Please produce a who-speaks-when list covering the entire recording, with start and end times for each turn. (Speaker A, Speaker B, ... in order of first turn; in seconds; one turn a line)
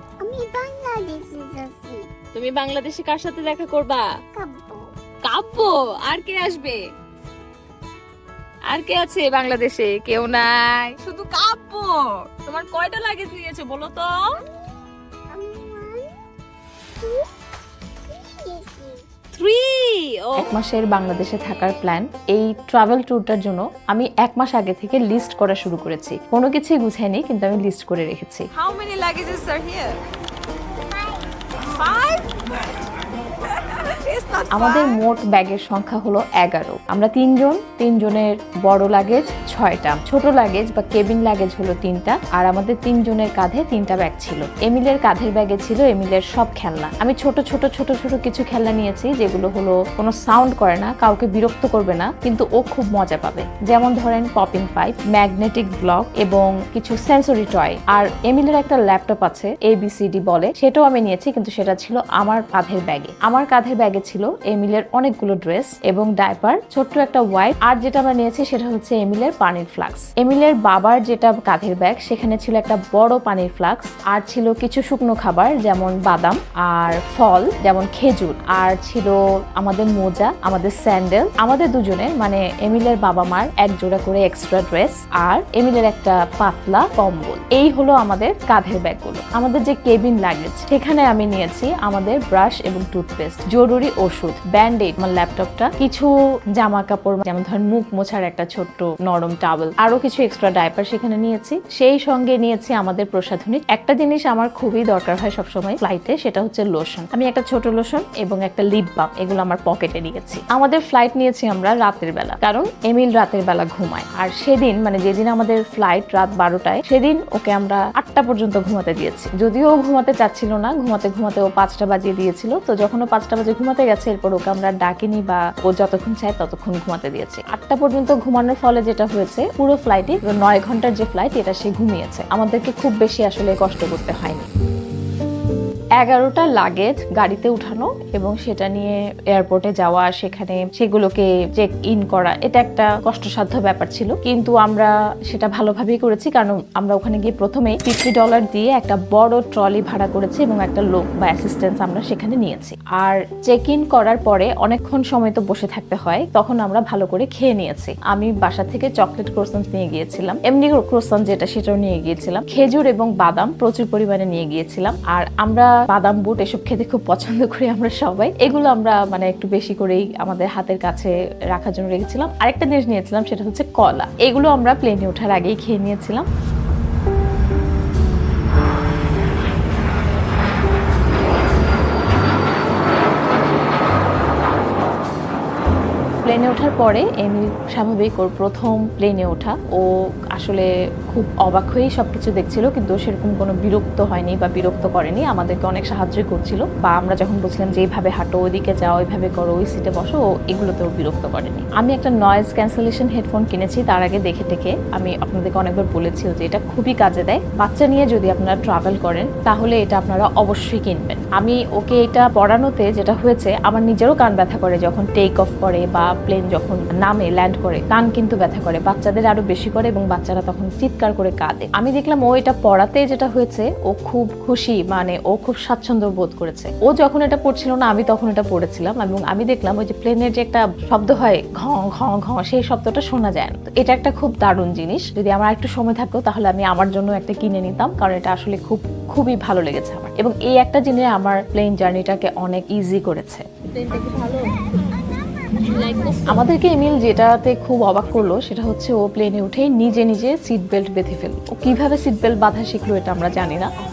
Speaker A: 0.2-2.1
Speaker B: 2.3-4.1
Speaker A: 4.3-4.9
Speaker B: 5.2-6.8
Speaker B: 8.7-14.4
Speaker A: 15.3-16.2
Speaker A: 17.0-17.3
Speaker A: 18.1-19.0
Speaker B: 19.3-20.5
Speaker C: 20.3-28.5
Speaker B: 28.5-30.0
Speaker B: 31.7-32.4
Speaker B: 33.5-34.9
Speaker C: 34.5-134.5
Speaker C: 136.0-176.3
Speaker C: 186.2-243.4
Speaker B: 243.7-244.6
Speaker B: 245.6-246.4
Speaker C: 246.3-253.7